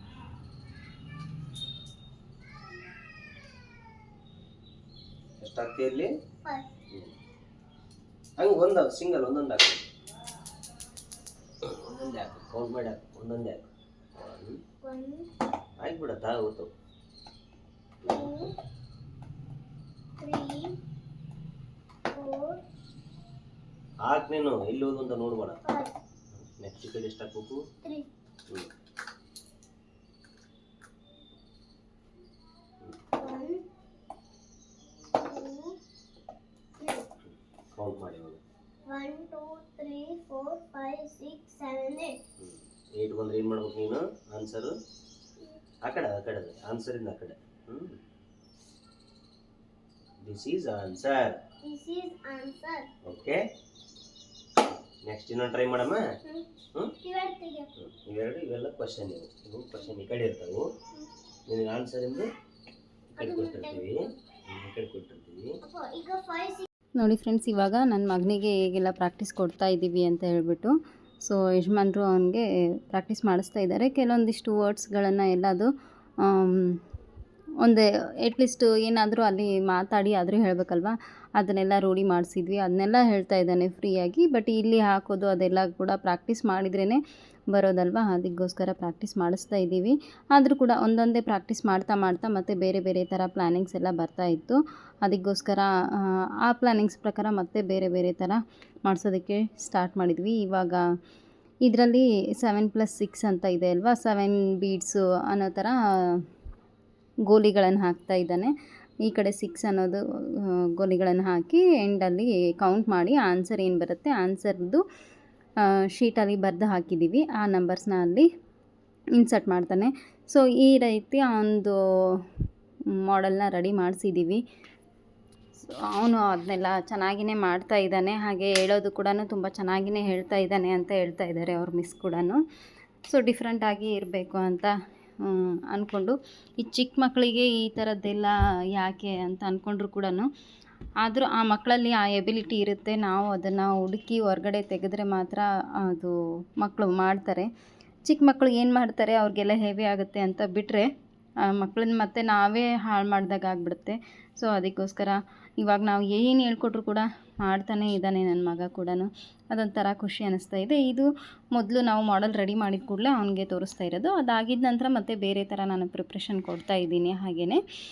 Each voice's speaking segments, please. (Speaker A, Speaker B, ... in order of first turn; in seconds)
Speaker A: 5.4-6.1, 8.4-9.9, 11.6-14.6, 15.8-16.7, 24.0-25.6, 26.4-27.6, 37.2-38.4, 42.4-44.7, 45.8-48.0, 50.2-51.4, 53.0-53.4, 55.0-56.0, 57.8-60.6, 61.5-62.3, 63.1-65.6
Speaker B: 6.4-6.7, 14.8-15.3, 18.0-18.5, 20.2-20.8, 22.1-22.6, 25.6-25.9, 27.8-28.1, 33.2-33.6, 35.1-35.8, 36.8-37.1, 38.9-42.2, 51.6-52.9, 57.0-57.7, 63.2-64.0, 65.6-66.7
Speaker C: 67.0-75.7, 76.2-76.8, 77.6-100.8, 101.6-106.2, 107.3-108.5, 109.0-114.8, 115.6-118.3, 119.2-122.2, 122.9-124.4, 125.6-132.4, 133.1-140.3, 141.0-147.5, 148.0-150.9, 151.4-167.6